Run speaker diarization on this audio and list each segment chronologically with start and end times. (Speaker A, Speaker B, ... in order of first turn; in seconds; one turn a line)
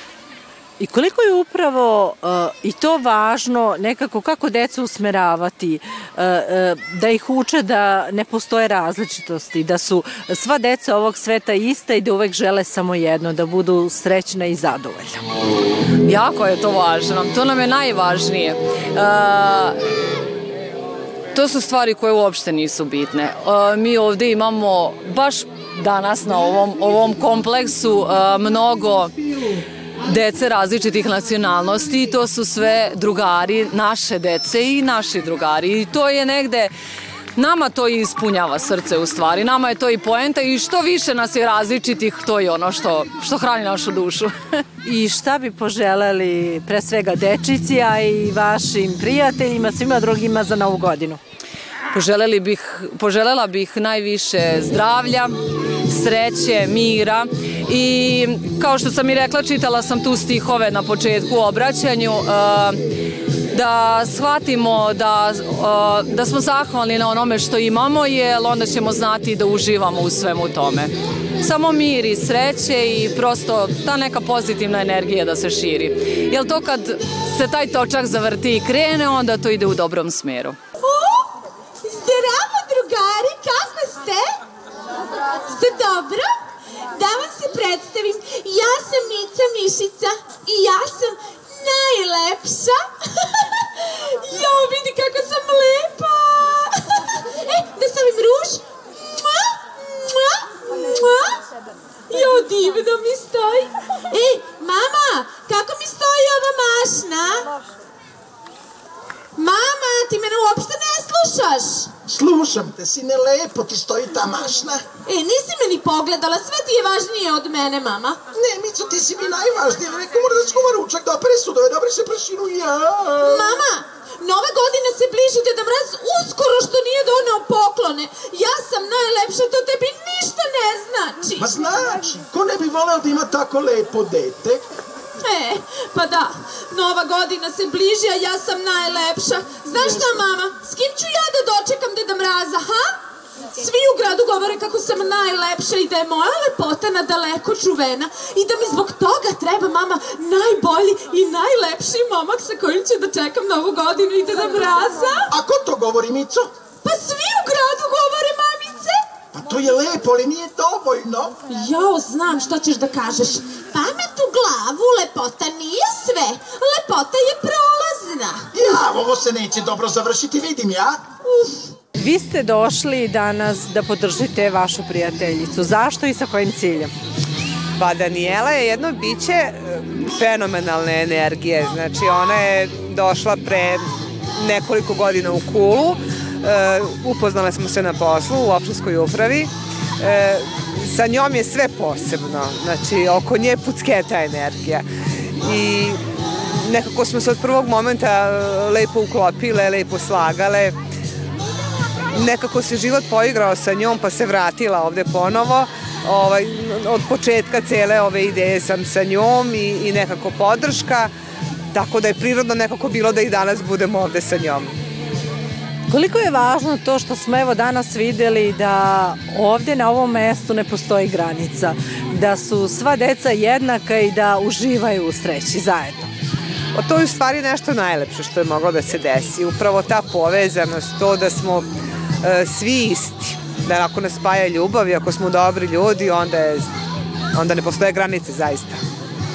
Speaker A: 0.8-15.2
Speaker B: 16.1-19.8
Speaker B: 21.3-29.1
Speaker B: 30.0-36.7
Speaker B: 37.4-44.3
Speaker A: 44.8-51.2
Speaker B: 51.9-55.3
Speaker B: 55.9-62.8
Speaker B: 63.5-80.6
Speaker C: 80.8-81.3
Speaker C: 81.8-84.3
Speaker C: 85.4-86.3
Speaker C: 86.9-101.4
Speaker C: 102.1-107.5
Speaker C: 109.3-111.9
Speaker D: 112.1-114.8
Speaker C: 115.1-118.2
Speaker D: 118.3-123.5
Speaker C: 123.2-131.5
Speaker D: 131.4-134.6
Speaker C: 135.2-143.0
Speaker C: 143.6-155.3
Speaker D: 155.3-156.5
Speaker C: 156.8-159.0
Speaker D: 159.3-161.3
Speaker C: 161.5-168.8
Speaker D: 168.5-171.0
Speaker C: 171.3-171.6
Speaker A: 172.0-176.9
Speaker E: 177.8-183.8
Speaker E: 184.3-194.8
Speaker E: 195.4-196.0
Speaker E: 196.6-200.8
Speaker E: 202.1-211.1
Speaker E: 211.7-214.7
Speaker A: 215.9-226.1
Speaker E: 226.7-231.7
Speaker E: 232.2-236.7
Speaker E: 237.3-238.8